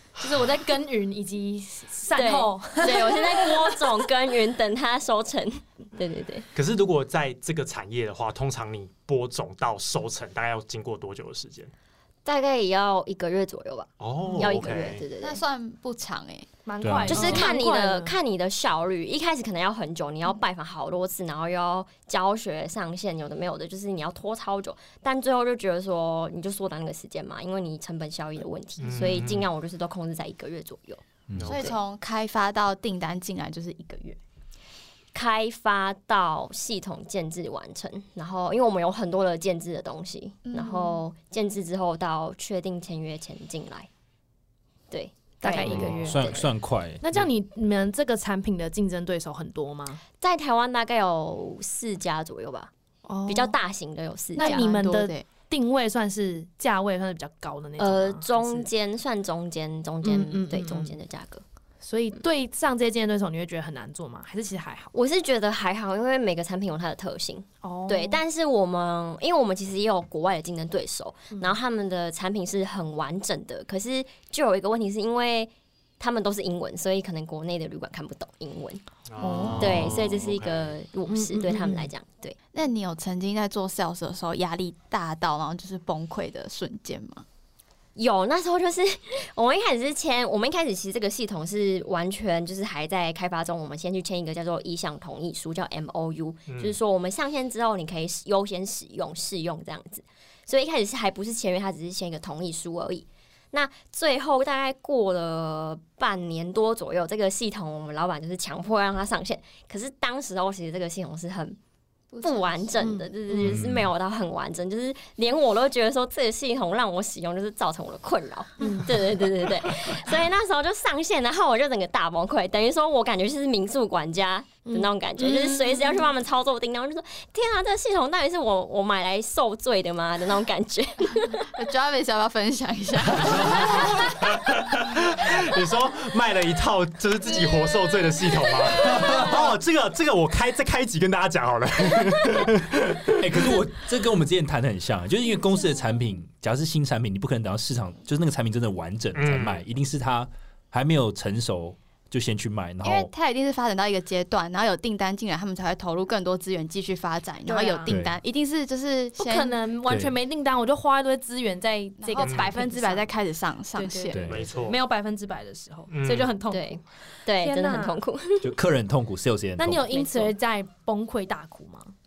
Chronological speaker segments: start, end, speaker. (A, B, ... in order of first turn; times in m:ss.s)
0:00.2-0:04.1 A
0:02.1-0:06.5 B
0:06.5-0:11.7 C
0:12.2-0:15.4 B
0:14.0-0:15.0 C
0:15.2-0:16.5 D
0:16.6-0:18.1 A
0:16.8-0:17.5 E
0:17.1-0:31.0 B
0:28.8-0:29.5 C
0:31.3-0:31.6 E
0:31.4-0:31.7 C
0:31.4-0:34.2 D
0:35.1-0:43.9 B
0:40.4-0:41.0 D
0:44.9-0:46.5 B
0:45.4-0:46.5 A
0:45.6-0:47.3 E
0:47.0-0:50.0 A
0:50.2-0:52.7 B
0:53.0-0:53.6 A
0:53.3-0:54.6 B
0:54.4-0:55.2 D
0:54.4-0:58.7 A
0:57.8-1:01.4 B
1:00.0-1:01.0 A
1:01.8-1:04.9 A
1:04.9-1:18.8 B
1:07.6-1:08.2 A
1:19.1-1:20.8 C
1:19.2-1:19.8 A
1:19.6-1:22.4 B
1:21.1-1:21.9 A
1:22.5-1:27.2 D
1:28.0-1:51.6 B
1:36.5-1:36.8 C
1:52.1-1:52.8 D
1:52.2-2:11.5 B
1:52.8-1:53.6 A
1:53.4-1:53.9 E
1:58.6-1:59.1 A
2:04.6-2:06.1 A
2:11.5-2:14.3 D
2:13.3-2:23.6 C
2:18.8-2:19.5 E
2:23.2-2:33.1 E
2:29.1-2:29.6 C
2:32.8-2:39.6 D
2:37.5-2:37.9 A
2:37.9-2:38.2 E
2:39.2-2:43.1 A
2:39.9-2:40.2 E
2:42.0-2:44.3 D
2:42.2-2:42.5 C
2:43.7-2:48.0 A
2:44.1-2:44.5 E
2:44.2-2:44.8 C
2:45.9-2:46.3 C
2:46.5-2:48.5 B
2:48.4-2:49.9 E
2:49.6-2:51.9 A
2:49.9-2:50.3 B